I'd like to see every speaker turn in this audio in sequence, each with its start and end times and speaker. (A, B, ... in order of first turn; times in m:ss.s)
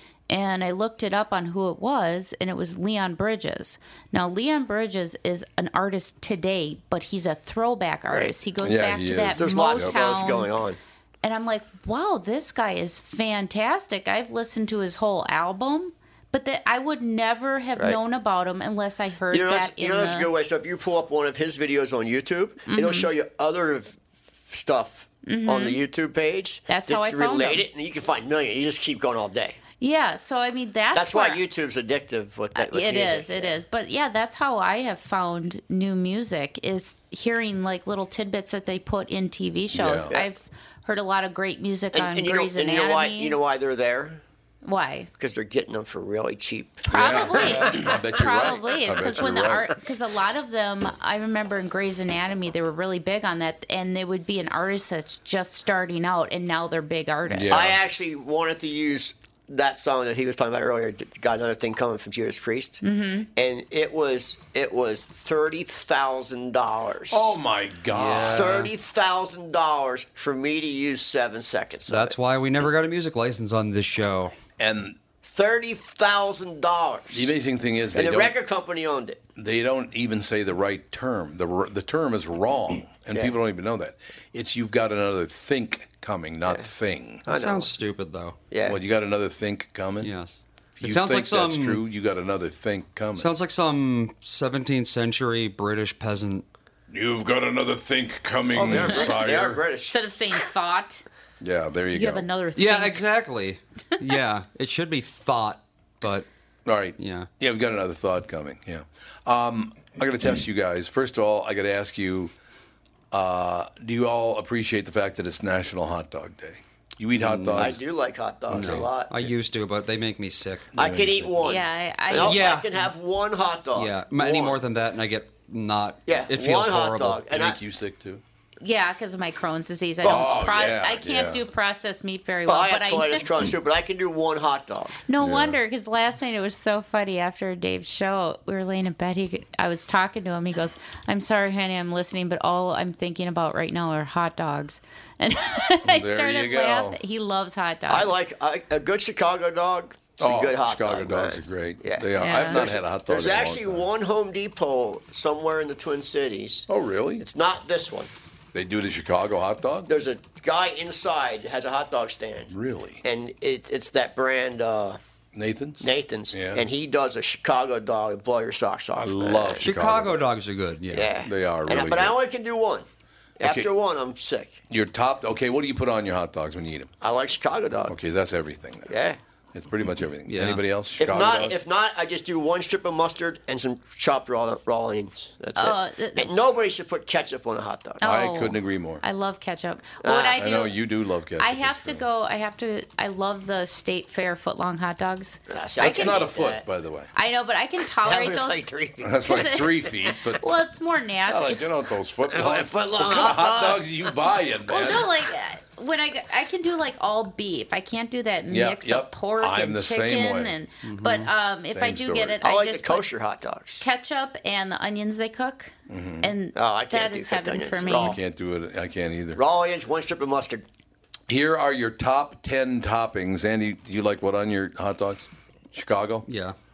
0:00.3-0:10.5 A
0:08.1-0:08.4 B
0:08.6-0:10.0 C
0:09.4-0:10.8 B
0:11.2-0:20.3 A
0:19.3-0:24.0 B
0:22.7-0:23.1 A
0:24.5-0:29.6 B
0:25.2-0:25.8 A
0:26.7-0:27.6 A
0:29.8-0:31.4 A
0:30.9-0:33.6 B
0:32.6-0:43.4 A
0:39.7-0:40.1 C
0:41.9-0:44.2 B
0:44.6-0:45.1 A
0:45.2-0:48.0 B
0:46.9-0:57.5 A
0:46.9-0:49.8 C
0:57.3-0:57.8 C
0:57.5-1:02.8 B
1:02.8-1:03.3 A
1:03.4-1:07.4 B
1:07.1-1:08.7 C
1:07.9-1:08.7 D
1:08.2-1:12.2 B
1:11.9-1:14.3 D
1:14.6-1:15.0 C
1:15.2-1:17.3 B
1:17.1-1:18.3 C
1:17.9-1:19.2 B
1:19.4-1:27.2 C
1:27.3-1:27.7 B
1:27.3-1:28.4 D
1:28.5-1:28.8 B
1:28.6-1:30.1 C
1:30.0-1:31.8 D
1:30.8-1:33.3 C
1:33.2-1:36.4 D
1:36.9-1:39.6 C
1:38.5-1:40.0 B
1:38.6-1:39.1 A
1:39.9-1:41.0 A
1:41.4-1:42.3 C
1:41.9-1:43.0 A
1:42.6-1:46.3 D
1:46.7-1:52.3 C
1:47.0-1:47.3 D
1:53.1-1:57.8 C
1:57.2-1:57.8 D
1:57.5-1:59.1 B
1:58.5-2:00.7 D
1:58.5-1:59.3 C
2:00.8-2:04.6 B
2:00.8-2:01.3 C
2:01.4-2:02.4 A
2:02.1-2:02.7 D
2:03.8-2:07.2 D
2:06.1-2:07.6 B
2:07.3-2:08.2 C
2:08.6-2:13.3 A
2:10.0-2:10.4 B
2:10.0-2:11.4 C
2:12.5-2:15.0 B
2:15.1-2:28.1 A
2:15.2-2:15.6 C
2:25.8-2:27.0 C
2:27.9-2:38.1 B
2:30.2-2:33.9 C
2:32.2-2:32.6 A
2:36.7-2:37.2 C
2:38.5-2:39.9 C
2:39.9-2:42.5 B
2:42.5-2:43.0 C
2:43.0-2:45.0 B
2:45.3-2:46.6 C
2:45.8-2:49.7 B
2:49.0-2:50.3 C
2:49.6-2:51.1 D
2:50.9-2:52.8 B
2:51.2-2:52.2 C
2:53.4-2:54.6 B
2:53.4-2:53.7 C
2:54.7-2:56.9 C
2:57.0-2:58.0 B
2:57.9-2:58.9 C
2:58.9-2:59.2 B
2:59.5-3:01.6 C
3:00.3-3:00.6 D
3:01.0-3:08.0 B
3:05.6-3:06.3 A
3:08.0-3:10.8 A
3:08.0-3:09.0 C
3:10.0-3:10.4 B
3:10.4-3:12.0 C
3:11.4-3:16.2 A
3:15.5-3:16.6 B
3:15.8-3:17.1 C
3:17.2-3:18.6 A
3:18.0-3:19.7 B
3:19.0-3:20.6 C
3:19.2-3:21.7 A
3:21.3-3:25.1 C
3:22.3-3:24.1 B
3:24.7-3:33.1 A
3:28.5-3:30.6 C
3:30.9-3:31.3 D
3:31.7-3:32.4 C
3:32.4-3:33.8 B
3:33.8-3:38.2 A
3:35.9-3:36.3 C
3:36.6-3:38.2 B
3:37.8-3:39.4 C
3:39.4-3:40.6 B
3:41.3-3:46.3 C
3:46.3-3:46.6 D